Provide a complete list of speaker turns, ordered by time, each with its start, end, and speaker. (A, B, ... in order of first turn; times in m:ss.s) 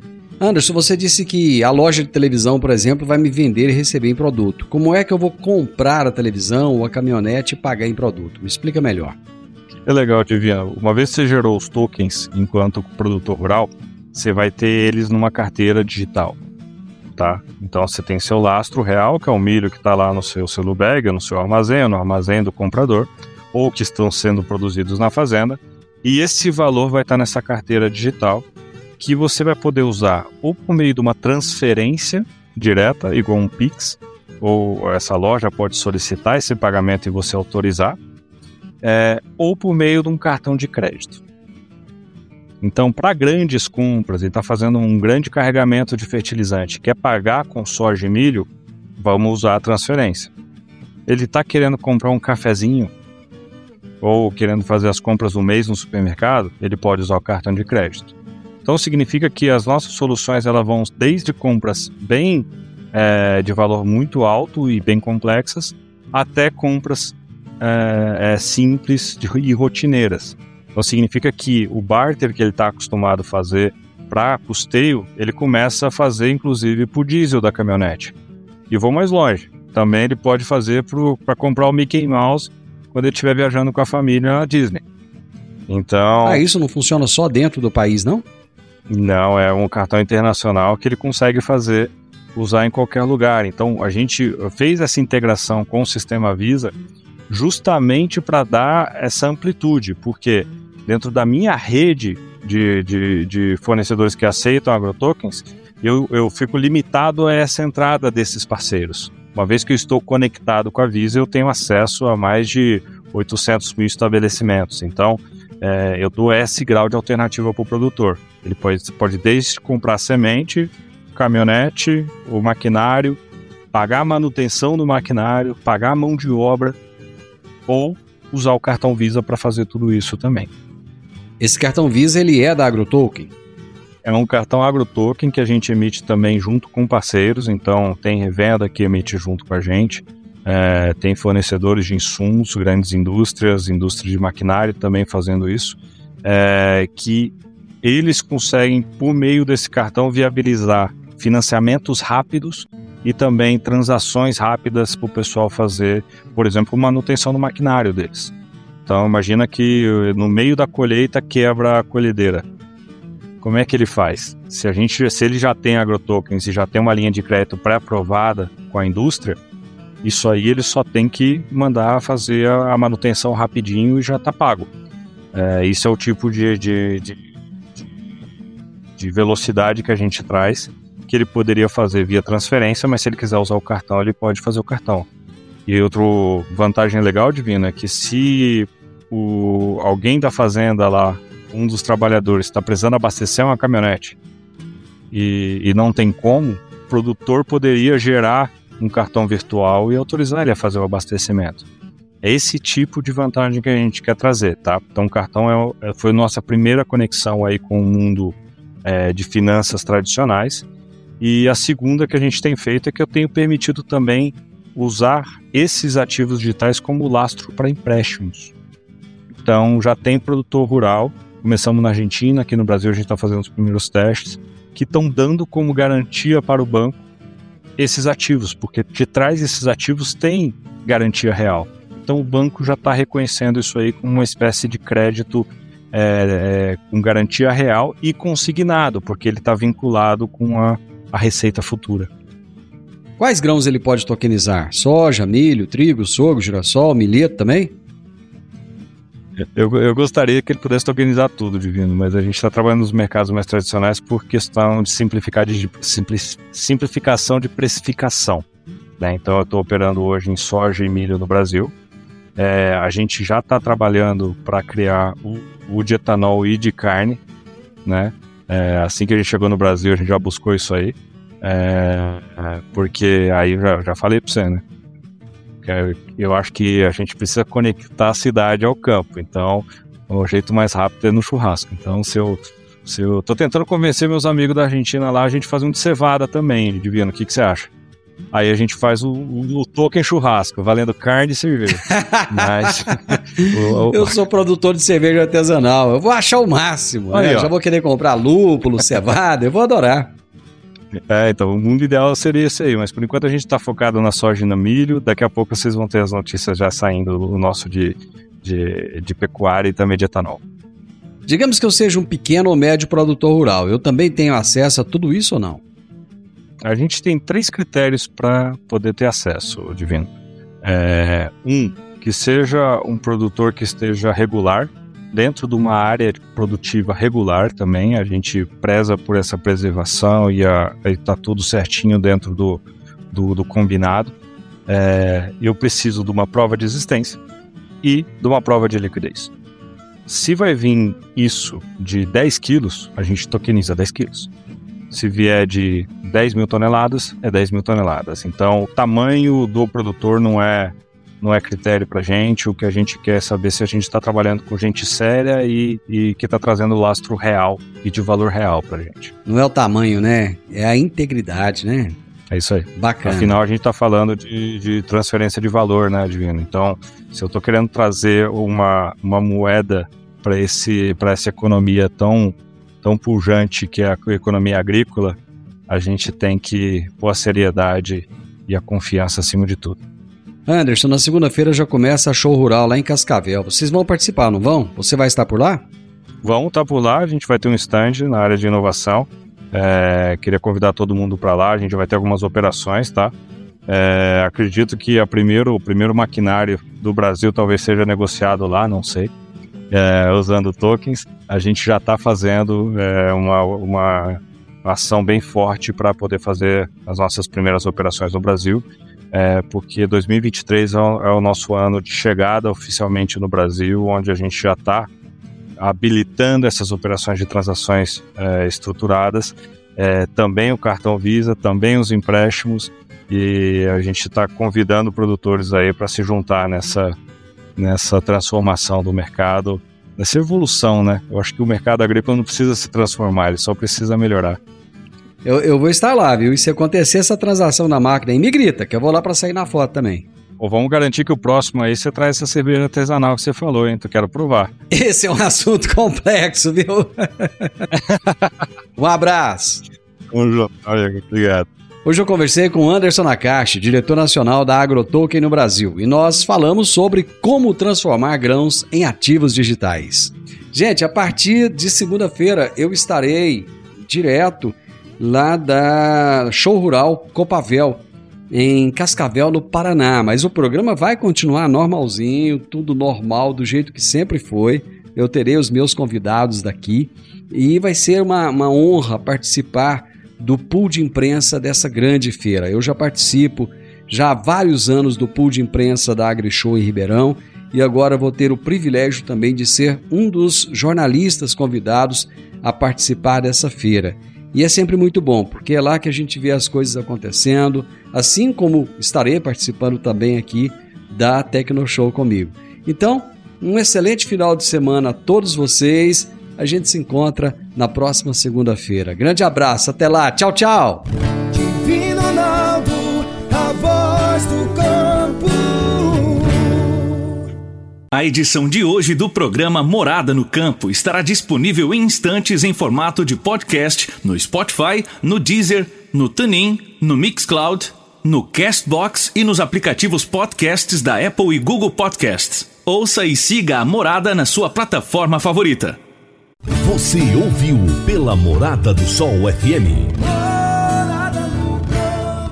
0:00.4-0:09.2 A
0:09.8-0:16.4 B
0:17.2-0:28.4 B
0:29.0-0:38.0 B
0:38.8-0:41.2 B
0:42.6-0:50.3 B
0:51.1-0:52.9 B
0:54.0-0:58.1 B
0:58.6-1:18.1 B
1:18.7-1:24.8 B
1:25.7-1:26.4 B
1:26.2-1:28.2 A
1:28.9-1:36.7 B
1:37.3-2:03.2 B
2:03.7-2:06.8 B
2:07.7-2:10.5 B
2:11.4-2:13.3 A
2:14.0-2:38.3 B
2:38.8-2:42.4 B
2:43.4-2:49.4 B
2:50.0-2:54.7 B
2:55.3-2:57.2 B
2:59.0-3:05.1 B
3:05.6-3:14.2 B
3:15.1-3:21.6 B
3:22.2-3:30.6 B
3:31.2-3:38.5 B
3:39.4-3:47.0 B
3:47.8-4:02.1 B
4:03.2-4:07.7 A
4:09.4-4:18.4 B
4:19.0-4:21.7 B
4:22.4-4:27.2 B
4:27.8-4:34.6 B
4:35.6-4:47.7 B
4:48.3-4:54.1 B
4:51.9-5:00.1 A
4:57.1-4:57.5 B
5:01.1-5:10.4 B
5:11.3-5:15.6 A
5:16.6-5:20.1 B
5:20.6-5:34.1 B
5:34.7-5:37.2 B
5:37.8-5:39.3 B
5:40.1-5:44.3 B
5:44.9-5:59.1 B
5:59.2-6:02.0 A
6:02.3-6:15.2 B
6:02.7-6:03.4 A
6:15.7-6:19.8 B
6:20.5-6:25.6 A
6:26.2-6:33.1 B
6:33.7-6:39.1 B
6:39.7-6:54.9 B
6:55.6-7:06.9 B
7:07.6-7:14.4 B
7:15.2-7:20.1 A
7:20.4-7:24.5 B
7:24.7-7:27.6 A
7:27.7-7:28.3 B
7:28.8-7:29.6 A
7:30.1-7:31.5 B
7:31.8-8:30.8 A
8:31.3-8:37.0 C
8:37.9-8:55.8 D
8:56.6-9:00.0 E
9:00.1-9:02.2 C